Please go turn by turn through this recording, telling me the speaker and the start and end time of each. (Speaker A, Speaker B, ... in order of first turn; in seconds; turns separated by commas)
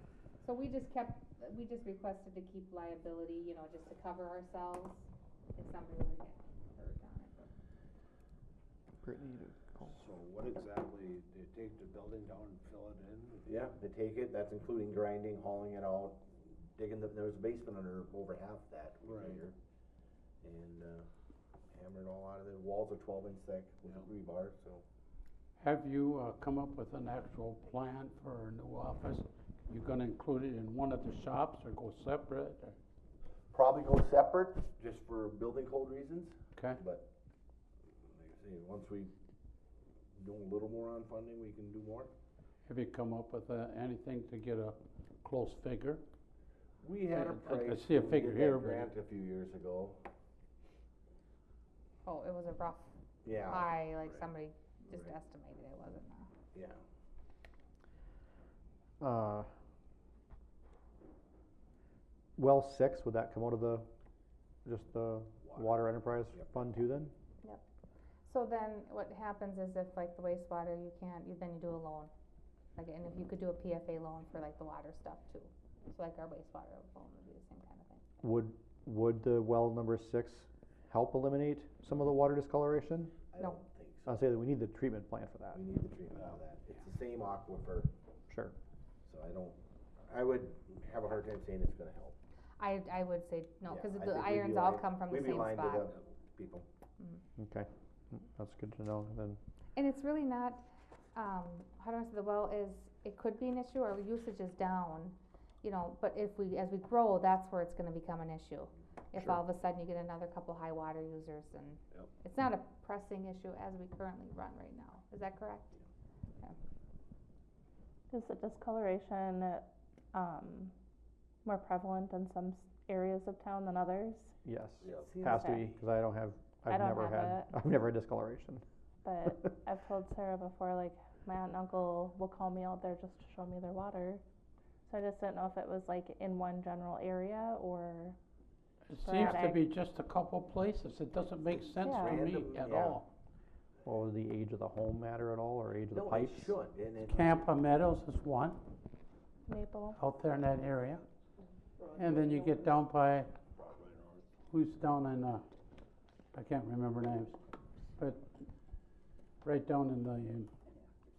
Speaker A: 0.4-7.5, Speaker B: 9.0-9.9, Speaker C: 9.9-13.5, Speaker D: 13.5-19.5, Speaker C: 19.0-19.4, Speaker D: 20.4-21.1, Speaker D: 21.7-24.8, Speaker E: 25.6-32.8, Speaker D: 33.5-37.1, Speaker E: 36.5-36.8, Speaker D: 38.2-39.1, Speaker D: 40.2-42.1, Speaker E: 42.7-46.0, Speaker D: 46.8-50.0, Speaker E: 47.1-48.9, Speaker A: 52.1-52.9, Speaker D: 53.2-53.8, Speaker A: 53.4-56.3, Speaker D: 54.9-55.1, Speaker D: 56.5-56.8, Speaker B: 59.0-59.5, Speaker B: 62.4-63.9, Speaker B: 64.7-67.1, Speaker D: 65.5-65.8, Speaker A: 68.2-72.1, Speaker A: 72.8-78.1, Speaker B: 78.2-83.2, Speaker D: 83.3-84.2, Speaker B: 84.1-85.6, Speaker D: 85.5-87.9, Speaker D: 89.1-92.2, Speaker A: 92.6-95.9, Speaker D: 93.7-96.7, Speaker B: 97.4-99.4, Speaker A: 99.8-100.6, Speaker A: 101.2-115.8, Speaker F: 118.1-120.7, Speaker F: 121.5-124.3, Speaker B: 124.4-128.6, Speaker C: 124.8-125.3, Speaker F: 125.1-125.7, Speaker F: 126.7-127.7, Speaker F: 129.1-134.2, Speaker F: 134.9-138.2, Speaker E: 138.9-143.1, Speaker F: 139.0-139.6, Speaker D: 141.6-143.0, Speaker F: 141.8-142.2, Speaker B: 143.8-146.5, Speaker D: 145.9-147.5, Speaker E: 147.0-148.6, Speaker F: 149.5-150.0, Speaker E: 150.0-151.1, Speaker E: 151.9-153.3, Speaker C: 153.6-154.2, Speaker E: 154.5-155.4, Speaker E: 156.3-157.4, Speaker E: 158.0-158.2, Speaker E: 159.4-160.5